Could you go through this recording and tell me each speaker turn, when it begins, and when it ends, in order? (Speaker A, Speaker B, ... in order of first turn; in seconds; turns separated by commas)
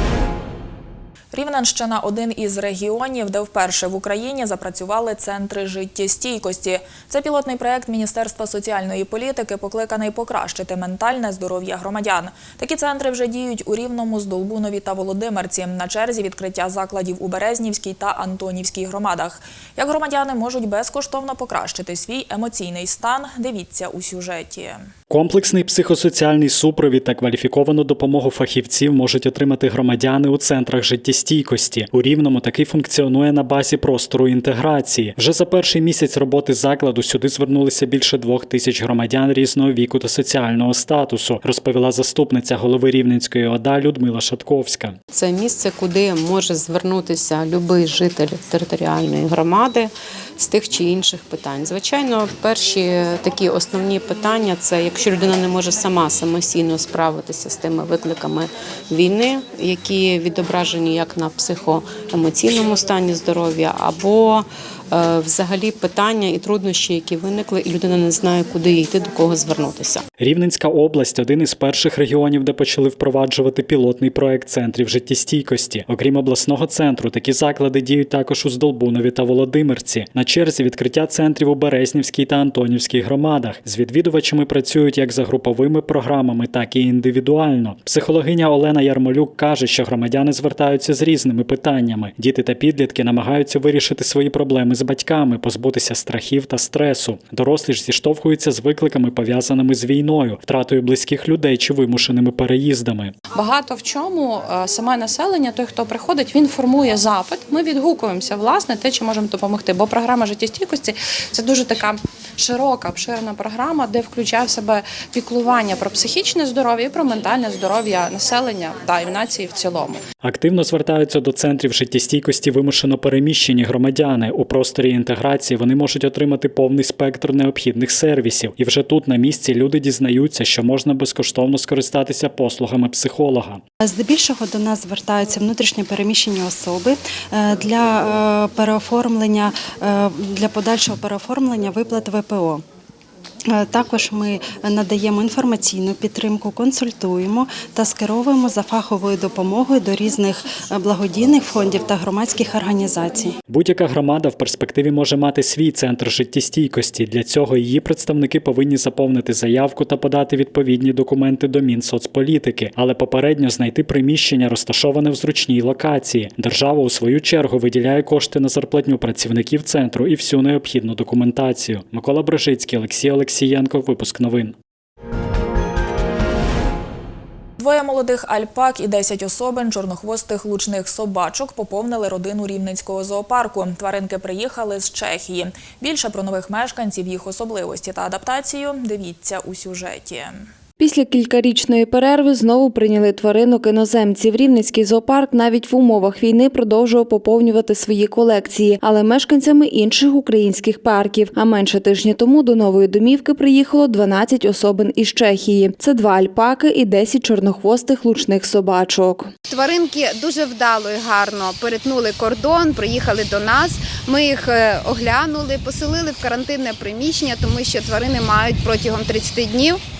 Speaker A: 1.3-24.9, Speaker B: 25.1-45.0, Speaker C: 45.1-70.0, Speaker B: 70.2-103.1, Speaker D: 103.3-120.0, Speaker B: 120.2-133.6, Speaker E: 133.8-142.6, Speaker E: 143.5-153.3, Speaker B: 153.5-174.5, Speaker A: 177.6-190.5, Speaker F: 190.8-209.3, Speaker G: 209.5-219.8